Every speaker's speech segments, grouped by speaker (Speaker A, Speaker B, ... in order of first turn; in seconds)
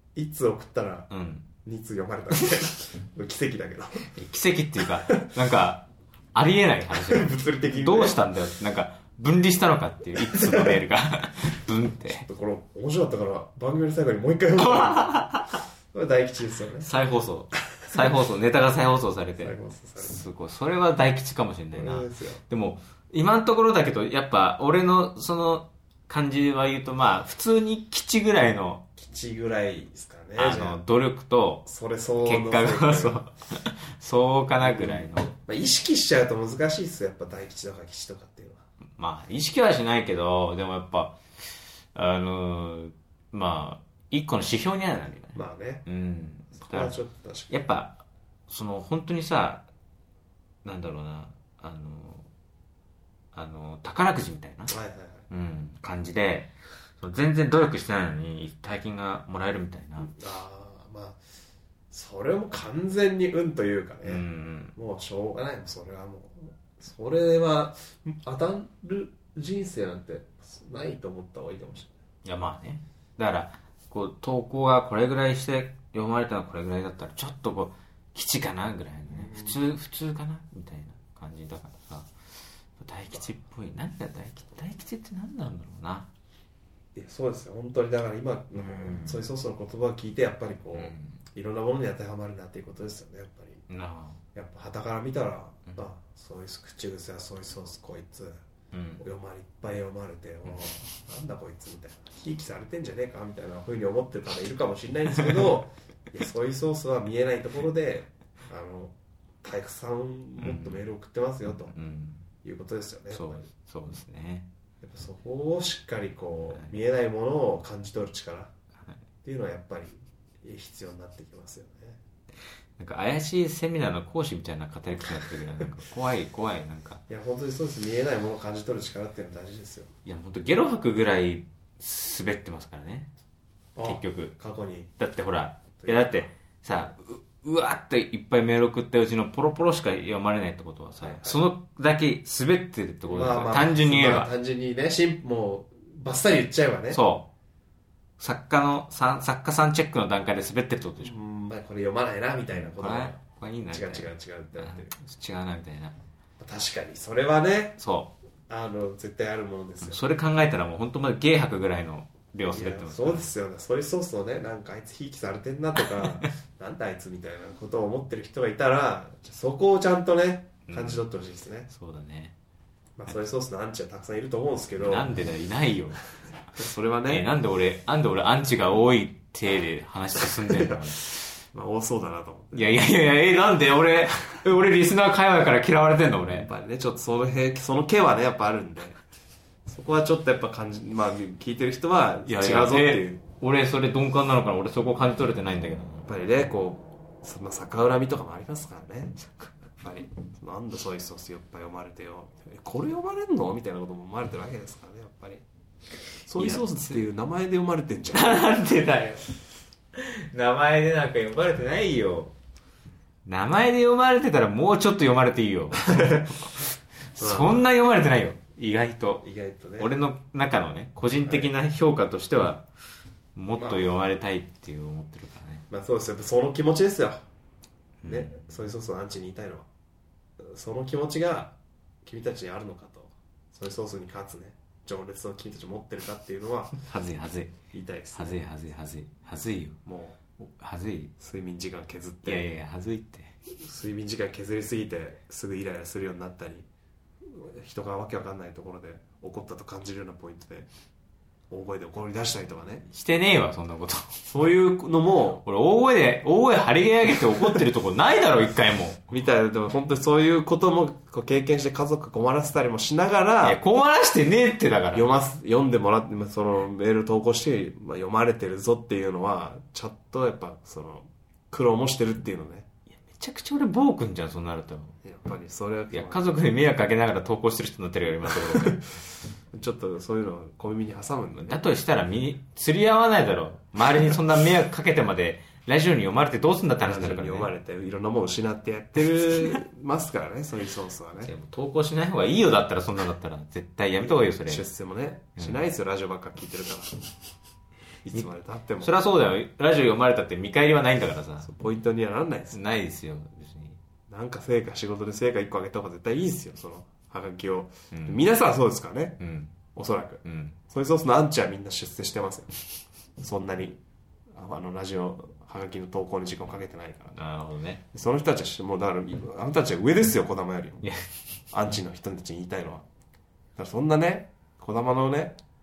Speaker A: 0.1-1.1, 1.6-4.1, 6.9-8.2, 10.2-10.8, 12.1-15.2, 15.9-16.9, 19.4-20.2, 21.7-22.4, 29.0-30.8, 31.7-33.2, 34.6-38.6, 45.3-45.9, 46.6-47.5, 54.7-55.2, 60.0-61.2, 61.9-64.2, 64.8-71.9, 79.1-79.6, 87.0-93.6, 94.3-98.4, 99.0-111.8, 112.4-113.4, 114.8-118.5, 119.2-122.0, 127.1-129.9, 133.8-134.9, 135.8-136.3, 141.0-141.4, 143.1-147.0, 151.0-153.2, 153.7-154.9, 156.4-157.8, 158.5-160.0, 162.5-171.7, 173.0-175.1, 176.6-177.3, 180.5-180.8, 181.5-182.7, 186.4-189.0, 189.7-193.2, 196.1-199.2, 199.7-205.4, 206.3-208.4, 215.9-216.3, 217.2-217.6, 219.2-219.9, 221.2-221.5, 223.6-223.9, 225.7-227.2, 228.1-229.7, 230.4-236.7, 237.7-238.4, 239.9-240.2, 241.2-242.5, 243.6-246.7, 247.2-250.7, 251.5-252.8, 254.3-255.4, 259.1-263.6, 264.9-272.7, 275.0-276.3, 278.3-278.8, 279.5-281.6, 286.8-291.3, 294.1-297.0, 298.1-298.9, 301.4-302.6, 304.1-309.2, 309.7-312.5, 313.2-313.8, 314.3-317.2, 317.9-320.9, 321.5-322.9, 323.6-325.4
Speaker B: 1.1-1.5, 4.1-12.3, 14.6-15.6, 16.8-28.9, 30.4-31.7, 32.2-35.3, 39.0-41.2, 42.0-47.0, 47.5-49.7, 50.6-52.3, 53.3-54.8, 55.3-60.1, 64.0-64.8, 72.2-82.1, 82.8-86.1, 88.5-89.2, 90.8-91.2, 93.7-94.2, 98.7-99.0, 110.4-110.8, 111.6-112.3, 113.1-114.5, 122.8-127.0, 130.1-133.1, 133.8-134.4, 135.0-144.3, 146.9-147.3, 148.2-151.2, 152.5-156.0, 157.8-158.1, 159.8-163.3, 170.7-171.0, 171.7-172.3, 174.8-176.1, 177.1-181.1, 182.5-186.5, 192.3-196.1, 206.4-206.7, 208.1-209.2, 209.9-212.3, 213.3-219.3, 219.8-222.7, 223.3-225.7, 228.0-228.5, 236.8-237.6, 238.1-239.8, 240.4-241.1, 242.2-243.4, 252.9-254.3, 255.4-259.1, 263.4-265.1, 272.9-275.0, 275.9-278.9, 281.4-287.5, 291.2-294.7, 298.8-301.5, 302.5-303.8, 307.9-308.2, 309.2-309.6, 310.2-310.6, 317.1-317.8